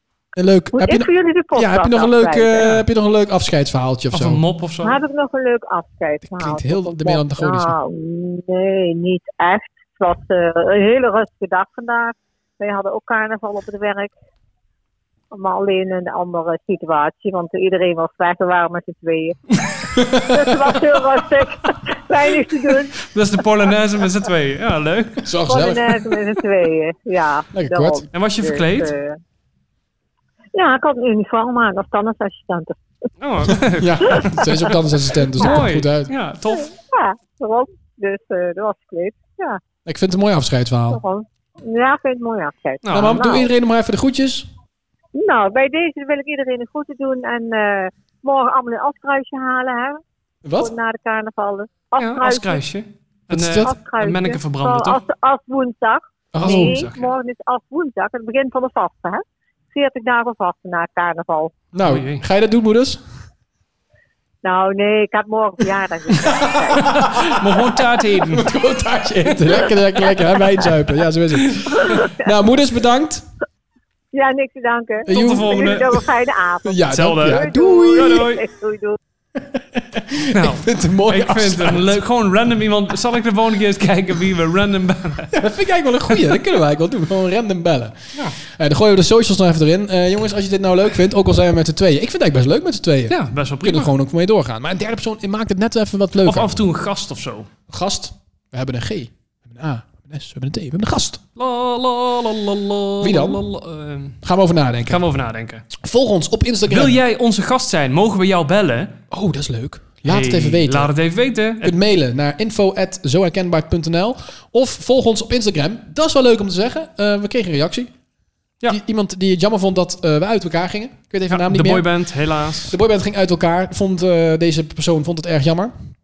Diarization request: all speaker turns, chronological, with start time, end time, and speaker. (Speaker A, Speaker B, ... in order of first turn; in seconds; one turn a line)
Speaker A: 0.4-4.4
Speaker B: 0.7-2.6
Speaker C: 2.5-2.9
Speaker C: 4.1-5.0
Speaker B: 4.8-14.1
Speaker A: 6.3-7.8
Speaker B: 15.3-19.4
Speaker A: 19.9-20.8
Speaker B: 20.2-23.0
Speaker C: 23.0-25.2
Speaker A: 25.2-26.2
Speaker B: 25.4-29.2
Speaker A: 27.5-28.1
Speaker C: 28.1-28.9
Speaker B: 30.5-32.8
Speaker C: 33.2-34.5
Speaker A: 33.8-36.1
Speaker B: 34.1-34.7
Speaker C: 35.4-36.7
Speaker B: 36.5-39.6
Speaker A: 39.9-41.0
Speaker B: 40.9-43.5
Speaker C: 42.8-43.5
Speaker A: 42.9-44.5
Speaker B: 45.1-50.0
Speaker A: 50.4-50.7
Speaker B: 50.6-52.6
Speaker C: 52.0-55.0
Speaker A: 53.3-53.7
Speaker B: 53.5-61.6
Speaker A: 56.3-56.9
Speaker C: 56.4-57.1
Speaker A: 61.7-63.0
Speaker C: 61.8-62.2
Speaker B: 64.4-67.0
Speaker A: 66.2-67.6
Speaker C: 66.7-68.5
Speaker A: 68.2-73.2
Speaker B: 71.8-72.2
Speaker B: 74.1-79.0
Speaker C: 75.1-76.0
Speaker A: 75.1-75.7
Speaker A: 76.6-78.3
Speaker C: 76.9-78.5
Speaker A: 79.4-82.0
Speaker C: 80.3-85.3
Speaker A: 85.3-96.5
Speaker C: 93.1-93.9
Speaker C: 96.2-97.5
Speaker A: 97.7-101.2
Speaker C: 101.4-104.2
Speaker A: 103.0-103.4
Speaker A: 104.2-105.0
Speaker C: 104.9-105.7
Speaker A: 105.8-107.0
Speaker C: 106.7-109.0
Speaker A: 109.1-110.9
Speaker C: 110.0-111.8
Speaker A: 111.6-117.9
Speaker A: 118.7-121.9
Speaker C: 121.3-122.8
Speaker A: 122.7-125.7